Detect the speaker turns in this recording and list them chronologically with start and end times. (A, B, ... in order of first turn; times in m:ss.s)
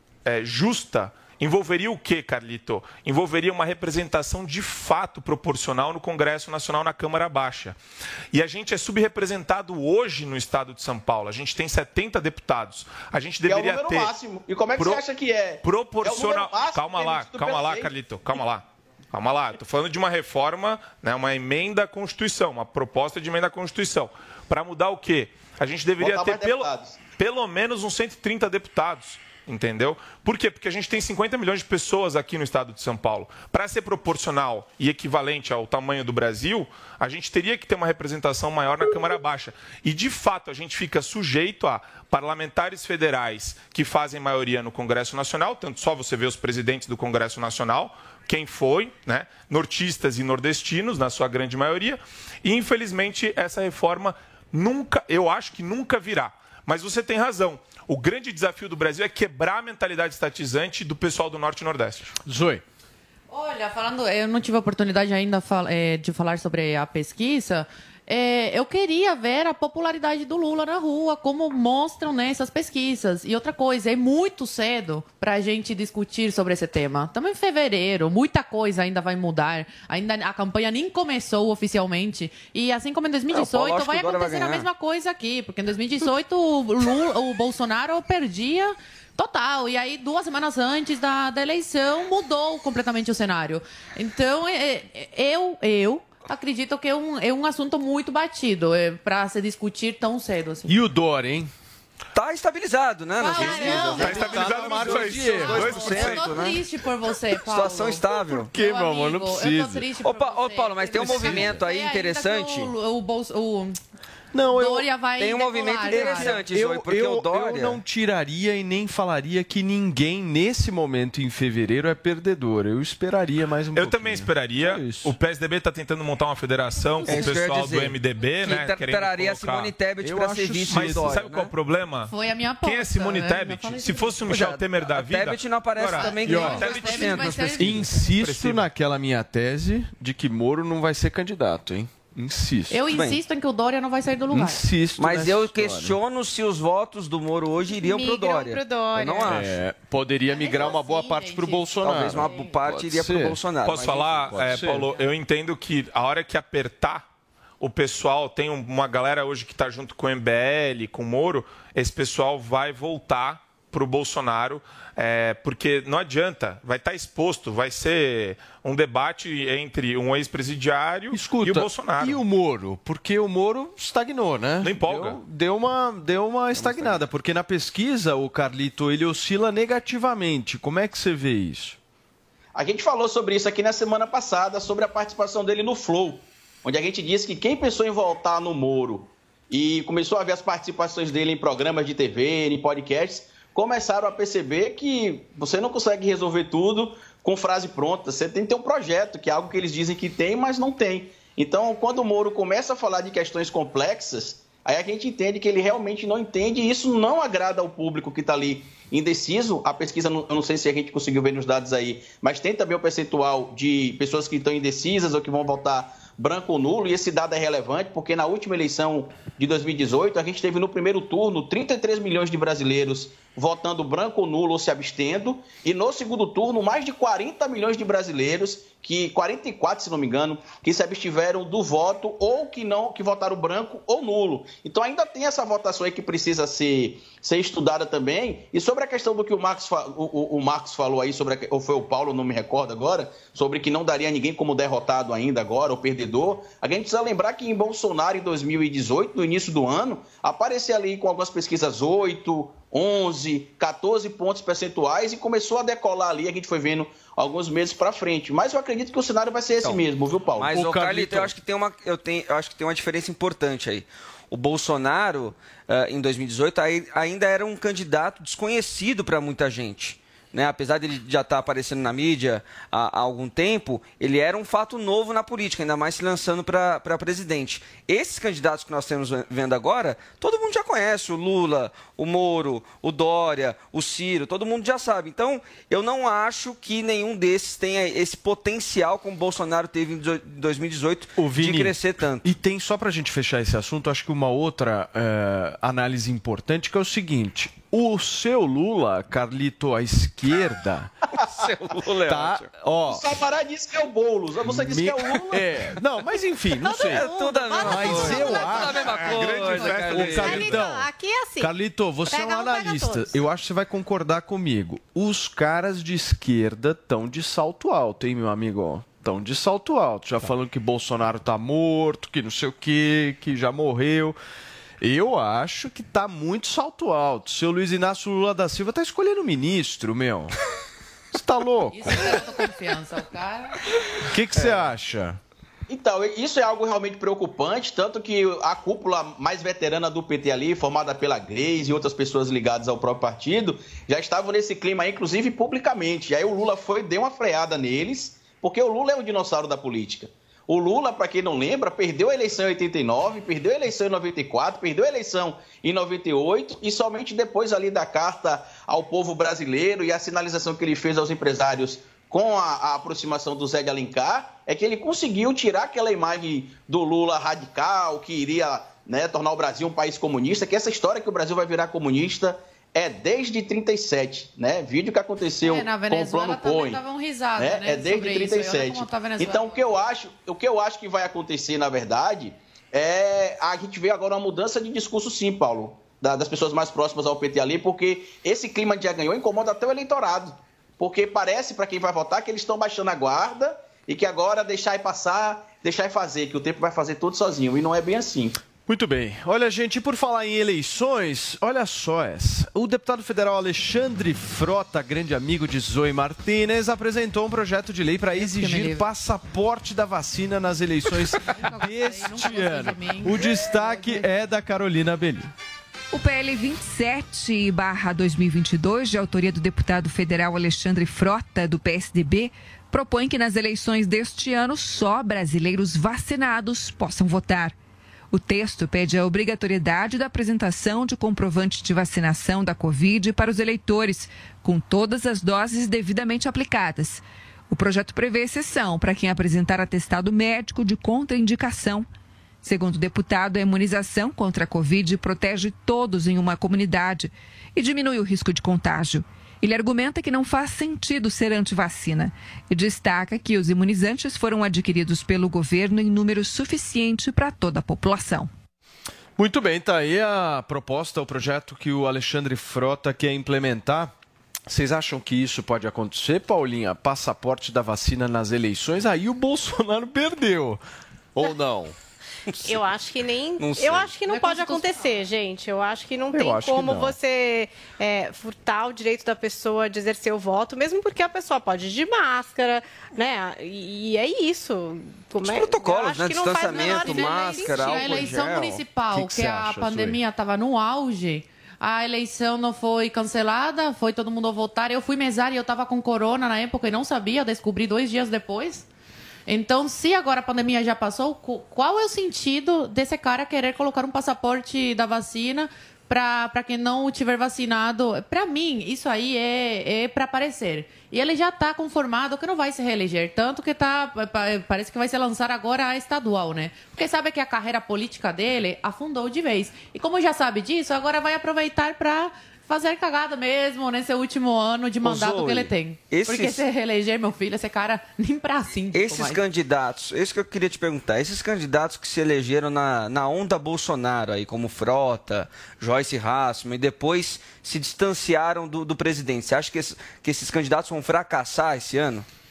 0:00.2-0:07.8 A
0:08.3-0:14.2 A
0:13.4-0:17.9 B
0:14.8-0:15.0 A
0:15.6-1:02.1 A
0:26.0-0:27.0 B
1:02.2-1:02.6 C
1:03.3-1:40.7 D
1:23.3-1:24.6 E
1:40.7-1:41.5 C
1:42.1-1:46.6 E
1:43.2-1:44.4 D
1:43.4-1:46.4 A
1:43.4-1:46.2 C
1:45.1-1:53.8 D
1:47.5-1:48.5 E
1:48.3-1:49.9 C
1:50.0-1:52.7 E
1:50.9-1:51.6 C
1:54.3-1:54.9 C
1:54.4-1:56.4 D
1:55.2-1:57.8 E
1:55.9-2:05.1 C
2:03.7-2:09.7 A
2:07.0-2:07.3 D
2:07.0-2:11.5 E
2:10.0-2:11.2 C
2:10.7-2:18.7 A
2:12.1-2:14.2 D
2:14.3-2:17.8 E
2:16.0-2:17.9 D
2:16.2-2:16.6 C
2:17.6-2:22.8 C
2:22.7-2:24.6 D
2:22.9-2:23.2 E
2:24.3-2:26.0 C
2:25.0-2:29.5 E
2:27.7-2:29.5 F
2:29.2-2:33.4 C
2:30.3-2:32.5 D
2:31.8-2:34.6 E
2:33.6-2:37.0 A
2:34.3-2:34.9 C
2:37.6-2:52.2 A
2:51.1-3:01.8 C
2:54.6-2:55.2 A
2:56.6-2:57.0 A
3:02.6-4:20.5 B
4:20.4-4:52.3 E
4:20.5-4:21.3 C
4:51.2-5:00.9 C
5:01.2-5:02.5 E
5:02.0-5:03.0 C
5:02.9-5:05.4 B
5:04.4-5:07.0 C
5:06.6-5:09.2 F
5:06.8-5:10.6 E
5:07.6-5:10.9 C
5:08.7-5:10.5 A
5:09.9-5:11.5 F
5:11.4-5:24.2 C
5:12.1-5:13.2 F
5:24.8-5:30.3 C
5:31.1-5:32.1 C
5:31.7-5:33.6 D
5:34.1-5:35.2 C
5:35.7-6:16.8 B
6:15.4-6:19.6 D
6:17.4-6:38.4 B
6:38.7-6:55.3 C
6:48.1-6:48.9 D
6:51.2-6:54.1 D
6:55.9-7:07.6 G
7:08.1-7:21.9 G
7:22.4-7:38.3 G
7:39.2-7:43.9 C
7:44.5-7:50.6 C
7:51.1-7:51.7 C
7:52.3-7:52.6 E
7:52.4-8:08.1 F
7:53.4-7:53.9 E
7:54.1-7:54.9 D
7:56.1-7:57.0 C
8:05.2-8:08.6 E
8:06.4-8:18.6 D
8:08.9-8:10.0 C
8:19.3-8:49.2 D
8:44.8-8:46.4 E
8:48.7-9:02.0 E